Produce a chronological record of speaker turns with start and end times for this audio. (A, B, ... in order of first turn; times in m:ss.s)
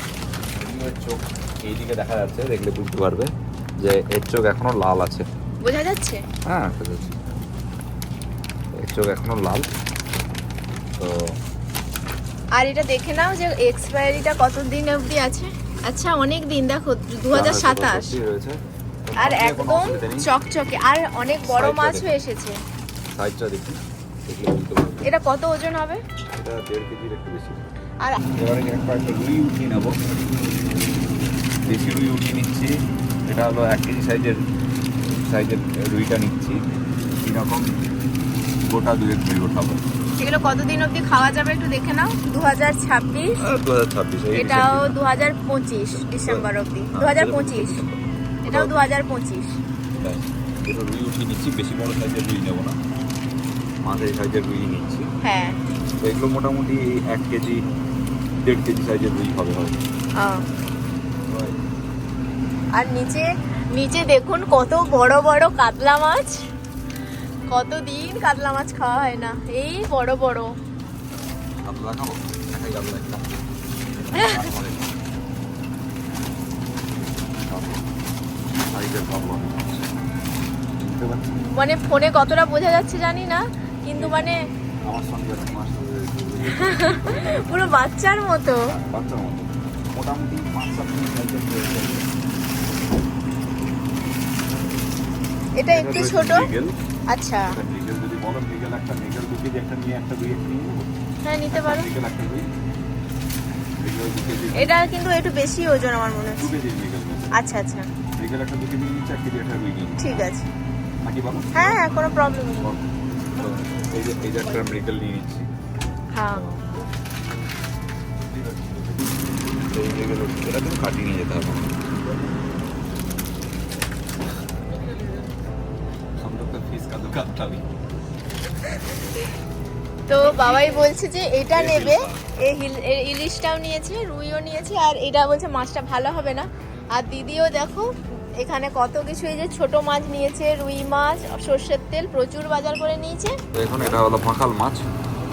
0:00.6-0:05.3 A
0:05.6-0:06.2 B
0:06.5-0:07.2 A
0:08.7-0:09.6 A
0:11.0-0:11.4 A
0:12.6-0:18.1 B
0:17.3-0:20.3 A
0:19.2-0:22.6 B
0:21.4-0:22.2 A
0:23.1-0:25.1 A
0:25.0-0:26.0 B
0:26.3-0:27.6 A
0:28.4-0:30.0 A
0:31.6-0:32.7 A
0:33.2-0:34.4 A
0:35.0-0:36.6 A
0:37.2-0:37.7 A
0:38.6-0:39.8 A
0:40.2-0:43.4 B
0:43.4-0:45.0 A
0:44.3-0:47.8 B
0:46.1-0:48.8 A
0:48.4-0:49.6 B
0:50.0-0:52.8 A
0:53.8-0:55.0 A
0:55.2-0:55.6 B
0:56.0-0:57.6 A
0:58.4-0:59.8 A
1:00.2-1:00.4 B
1:01.3-1:01.6 A
1:02.7-1:06.4 B
1:07.5-1:10.5 B
1:11.6-1:13.4 A
1:14.0-1:14.9 A
1:14.1-1:14.4 B
1:17.0-1:17.9 A
1:18.5-1:19.7 A
1:20.8-1:21.4 A
1:21.4-1:24.4 B
1:24.0-1:24.2 A
1:24.8-1:27.7 A
1:26.6-1:28.6 B
1:28.7-1:32.1 A
1:35.6-1:36.5 B
1:35.7-1:36.8 A
1:37.1-1:37.6 B
1:37.5-1:40.9 A
1:41.2-1:41.9 B
1:41.5-1:42.5 A
1:43.8-1:44.7 A
1:44.6-1:46.5 B
1:46.4-1:47.3 A
1:47.3-1:47.9 B
1:48.2-1:50.2 A
1:50.0-1:50.5 B
1:51.0-1:51.8 A
1:51.5-1:52.7 B
1:52.6-1:55.5 A
1:56.1-1:56.6 B
1:56.3-1:56.6 A
1:58.2-2:02.3 A
2:06.2-2:07.6 A
2:08.6-2:09.3 B
2:10.1-2:23.4 B
2:10.3-2:10.7 A
2:11.5-2:12.2 A
2:23.5-2:24.8 A